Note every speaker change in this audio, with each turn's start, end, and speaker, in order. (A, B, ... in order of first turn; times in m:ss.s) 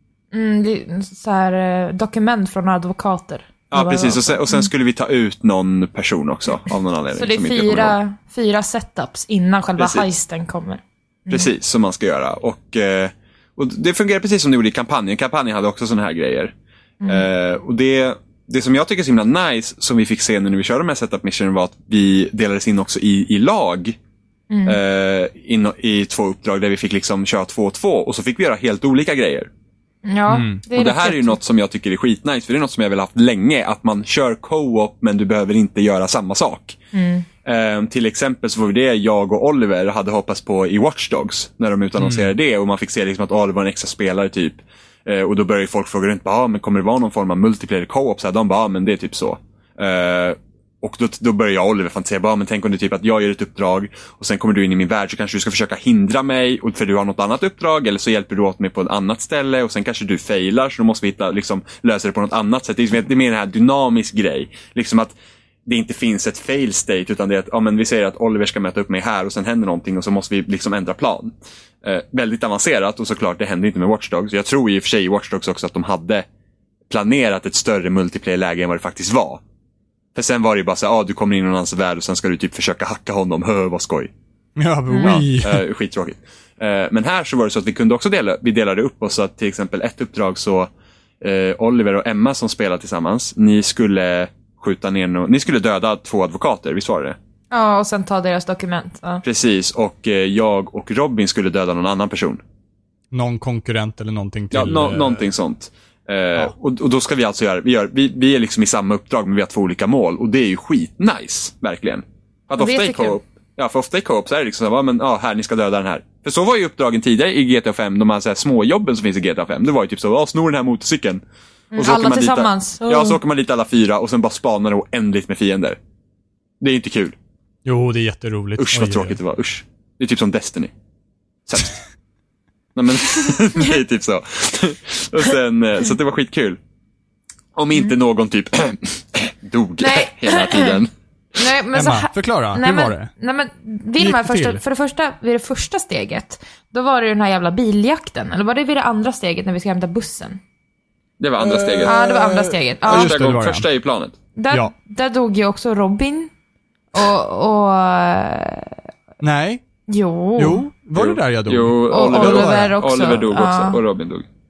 0:00.3-0:04.7 A
0:03.7-0:08.0 B
0:07.1-0:11.5 A
0:09.8-0:10.1 B
0:11.3-0:16.5 B
0:17.0-0:17.3 A
0:17.1-0:24.0 B
0:24.5-0:24.8 A
0:24.6-0:29.5 B
0:30.0-0:31.4 A
0:30.3-0:30.6 C
0:30.7-0:36.8 B
0:36.9-0:37.2 A
0:37.4-1:05.1 B
0:42.0-0:42.3 C
1:05.6-1:16.2 B
1:16.9-1:19.4 B
1:20.1-1:24.1 B
1:24.6-1:25.6 C
1:24.9-1:25.2 A
1:25.0-1:37.2 B
1:37.5-1:39.2 A
1:39.2-1:42.4 B
1:43.1-1:45.2 C
1:44.5-2:01.2 B
1:52.6-1:53.2 A
2:01.7-2:03.2 A
2:01.8-2:05.8 B
2:06.6-2:07.2 B
2:07.6-2:09.2 C
2:08.6-2:10.7 B
2:11.4-2:11.8 B
2:12.7-2:16.6 B
2:17.6-2:20.9 B
2:19.8-2:20.8 A
2:21.4-2:30.4 A
2:21.7-2:23.1 C
2:24.0-2:24.6 C
2:31.2-2:32.0 B
2:31.4-2:33.6 C
2:31.8-2:33.2 A
2:32.8-2:34.2 B
2:34.3-2:36.3 A
2:36.9-2:38.8 A
2:39.2-2:39.6 C
2:39.9-2:40.6 A
2:40.4-2:42.8 C
2:41.0-2:44.3 B
2:41.9-2:43.8 A